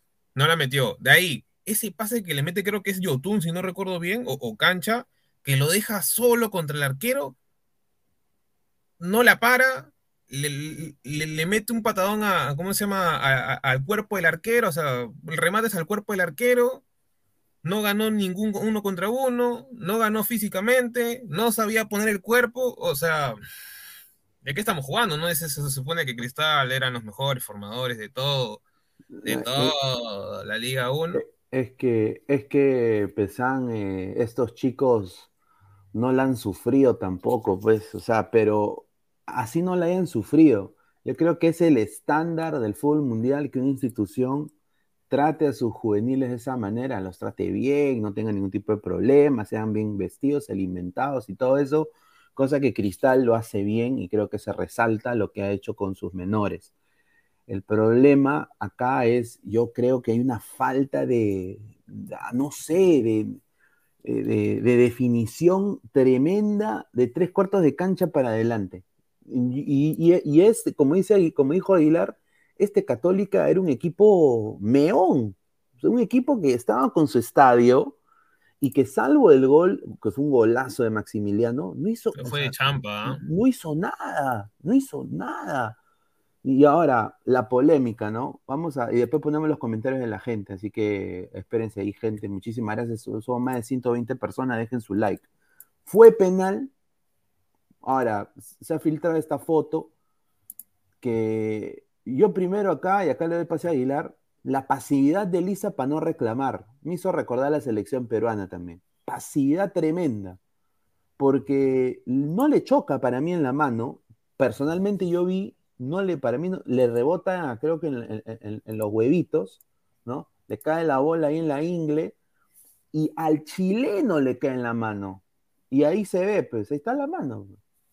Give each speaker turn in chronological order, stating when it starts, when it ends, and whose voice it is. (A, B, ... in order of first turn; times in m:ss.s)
0:00.4-0:07.3 A
0:09.0-0:16.8 A
0:17.6-0:23.4 A
0:24.4-0:28.6 A
0:29.2-0:29.7 B
0:29.2-0:31.2 A
0:31.1-0:35.3 B
0:35.9-0:44.5 B
0:45.1-0:56.7 B
0:57.5-1:03.4 B
1:04.0-1:18.0 B
1:18.6-1:25.8 B
1:22.1-1:23.2 A
1:26.4-1:35.3 B
1:35.8-1:36.7 B
1:37.8-1:39.9 B
1:41.0-1:50.4 B
1:51.2-2:02.2 B
2:02.9-2:07.6 B